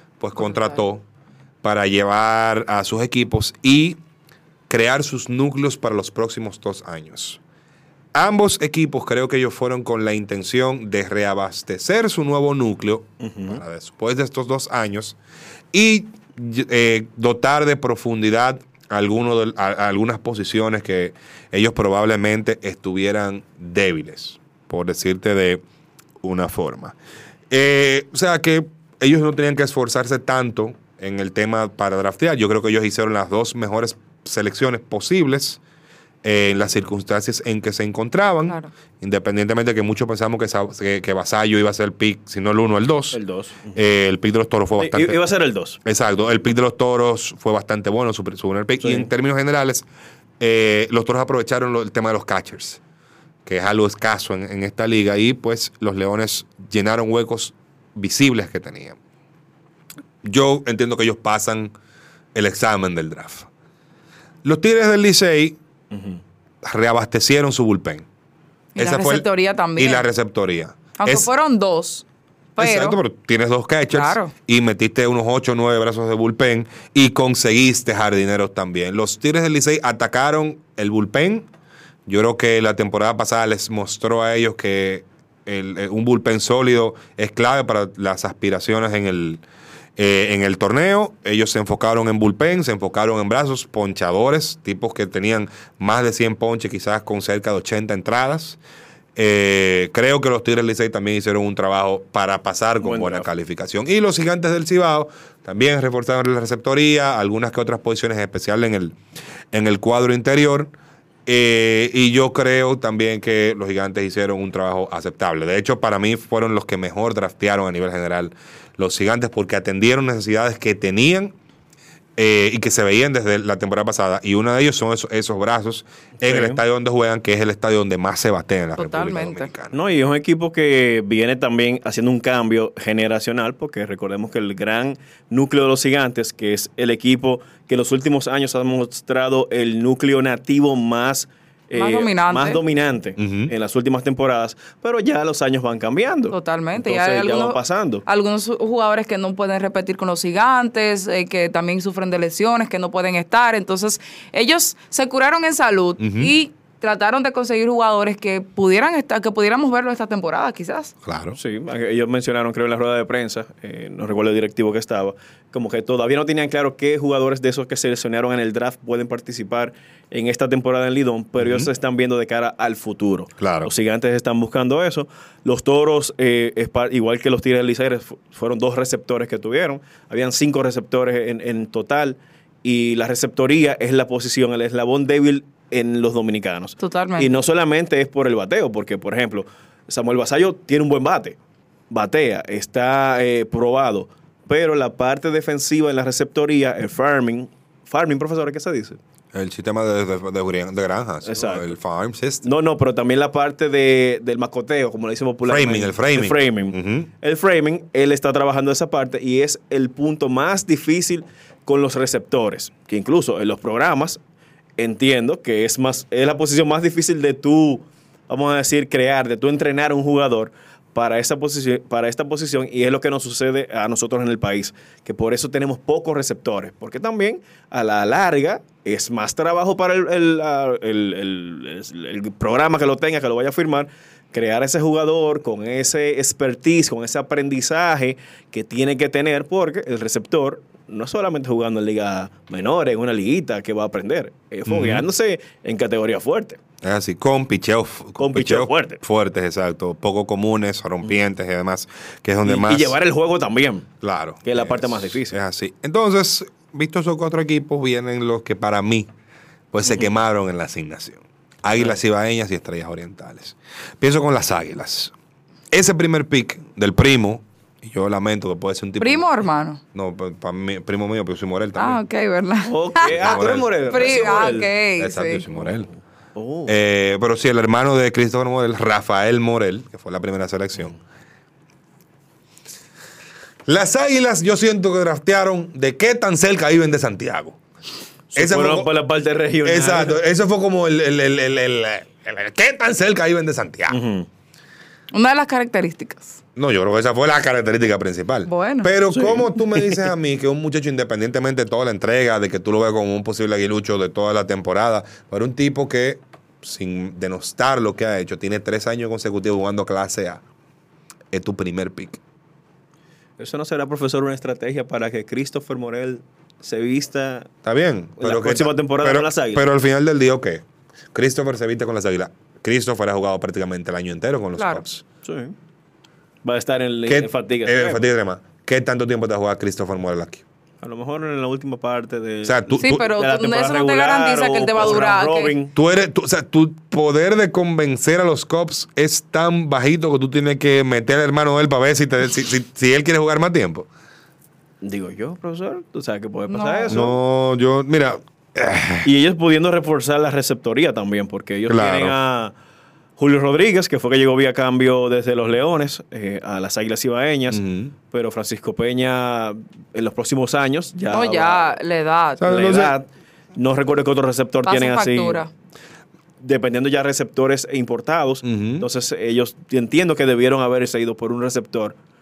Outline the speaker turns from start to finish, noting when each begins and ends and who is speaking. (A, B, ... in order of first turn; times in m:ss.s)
0:00.2-0:01.0 A
0:00.4-0:00.8 B
0:01.6-0:04.0 A
0:04.7-0:07.4 A
0:08.1-0:15.2 A
0:13.2-0:13.6 C
0:15.7-0:25.6 A
0:26.2-0:27.0 A
0:27.5-0:35.6 A
0:36.2-0:43.2 A
0:43.1-0:43.8 C
0:43.7-0:45.2 A
0:44.8-0:45.8 C
0:45.8-0:49.8 A
0:48.8-0:49.1 C
0:50.4-0:52.8 A
0:53.4-0:59.0 A
1:00.2-1:01.7 A
1:02.3-1:03.5 A
1:04.4-1:05.6 A
1:05.9-1:06.2 C
1:06.6-1:08.0 A
1:08.7-1:10.1 B
1:08.8-1:11.3 A
1:11.0-1:12.0 B
1:12.6-1:13.0 B
1:12.6-1:21.5 A
1:13.9-1:14.3 B
1:22.1-1:29.4 A
1:30.0-1:38.6 A
1:39.2-1:49.0 A
1:42.8-1:43.3 C
1:49.5-1:50.7 A
1:51.2-2:01.3 A
2:02.2-2:09.8 A
2:06.2-2:06.6 C
2:08.8-2:09.5 B
2:09.7-2:28.0 C
2:21.7-2:22.6 B
2:23.2-2:23.5 A
2:26.3-2:40.9 B
2:36.0-2:36.3 A
2:41.0-2:41.4 A
2:41.4-3:11.4 C
2:51.4-2:51.7 A
2:53.4-2:53.7 A
3:06.8-3:07.3 B
3:11.9-3:19.0 C
3:19.3-3:22.5 A
3:21.2-3:21.7 C
3:22.4-3:34.2 C
3:25.4-3:27.1 A
3:34.8-4:06.6 C
4:04.7-4:05.1 A
4:06.8-4:13.0 A
4:08.2-4:09.0 C
4:12.4-4:13.9 C
4:14.0-4:19.1 A
4:14.4-4:15.3 C
4:19.7-4:25.1 A
4:19.8-4:20.1 C
4:25.7-4:29.3 A
4:29.0-4:29.8 B
4:29.9-4:32.0 A
4:31.8-4:33.1 B
4:32.6-4:34.7 C
4:33.0-4:35.9 A
4:33.9-4:35.4 B
4:35.5-4:36.8 C
4:36.7-4:41.0 A
4:43.6-4:47.6 A
4:48.3-4:50.2 C
4:48.3-4:48.9 A
4:49.6-4:54.0 A
4:53.9-4:54.3 C
4:55.1-4:56.4 B
4:56.6-5:10.4 A
4:58.4-4:58.9 B
4:59.1-5:00.0 C
5:11.3-5:12.2 A
5:13.4-5:17.5 C
5:17.6-5:25.0 A
5:18.2-5:19.6 C
5:24.6-5:24.8 B
5:25.2-5:25.5 C
5:26.4-5:28.0 C
5:27.1-5:30.4 A
5:30.8-5:35.7 C
5:32.4-5:33.0 A
5:32.8-5:35.5 B
5:35.7-5:43.9 A
5:44.8-5:47.1 C
5:46.5-5:47.0 B
5:46.9-5:49.1 A
5:49.0-5:52.5 C
5:51.7-5:52.2 A
5:53.2-6:01.7 C
5:57.5-5:57.9 A
6:01.1-6:02.6 B
6:02.4-6:02.9 A
6:02.4-6:05.4 C
6:04.6-6:05.5 B
6:06.4-6:12.0 C
6:08.4-6:08.8 A